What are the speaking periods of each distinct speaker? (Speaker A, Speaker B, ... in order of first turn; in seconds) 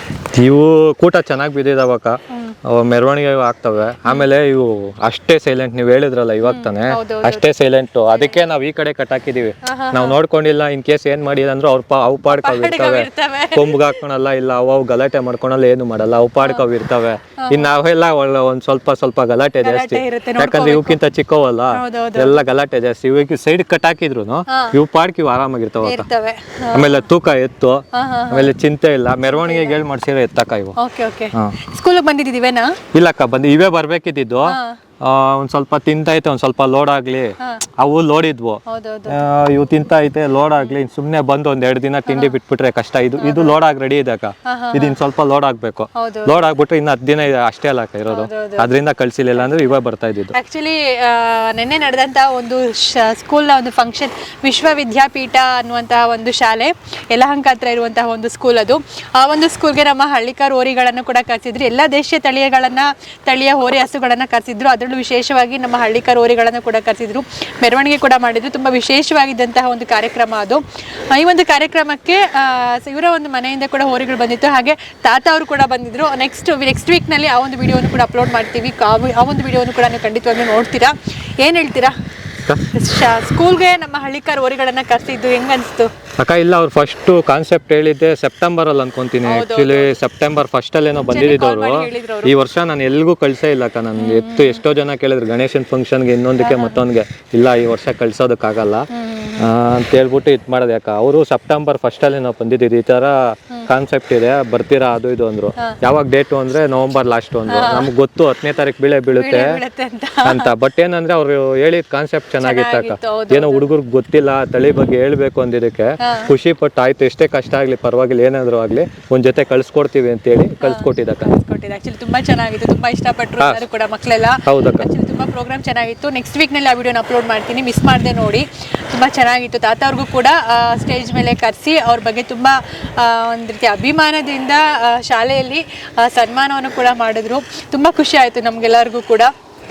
Speaker A: 0.3-26.1, 26.7-30.8, 32.9-50.3, 86.2-109.6, 110.2-121.3, 124.5-124.9
Speaker B: 2.3-2.6, 6.4-7.5, 8.1-8.4, 9.6-10.2, 12.3-14.0, 16.4-16.7, 17.4-17.7, 19.6-21.0, 21.7-22.4, 24.5-24.8, 25.8-27.1, 27.9-28.5, 29.3-29.8, 30.8-32.8, 34.5-34.8, 37.4-37.6, 38.7-39.2, 42.1-42.4, 43.2-43.6, 44.5-45.0, 46.0-46.5, 48.1-48.7, 49.4-49.8, 50.3-81.9, 82.7-85.9, 89.2-90.0, 91.0-92.3, 94.0-94.6, 96.4-96.8, 98.9-99.5, 107.5-107.9, 109.2-110.5, 112.4-113.7, 116.0-116.3, 120.6-139.3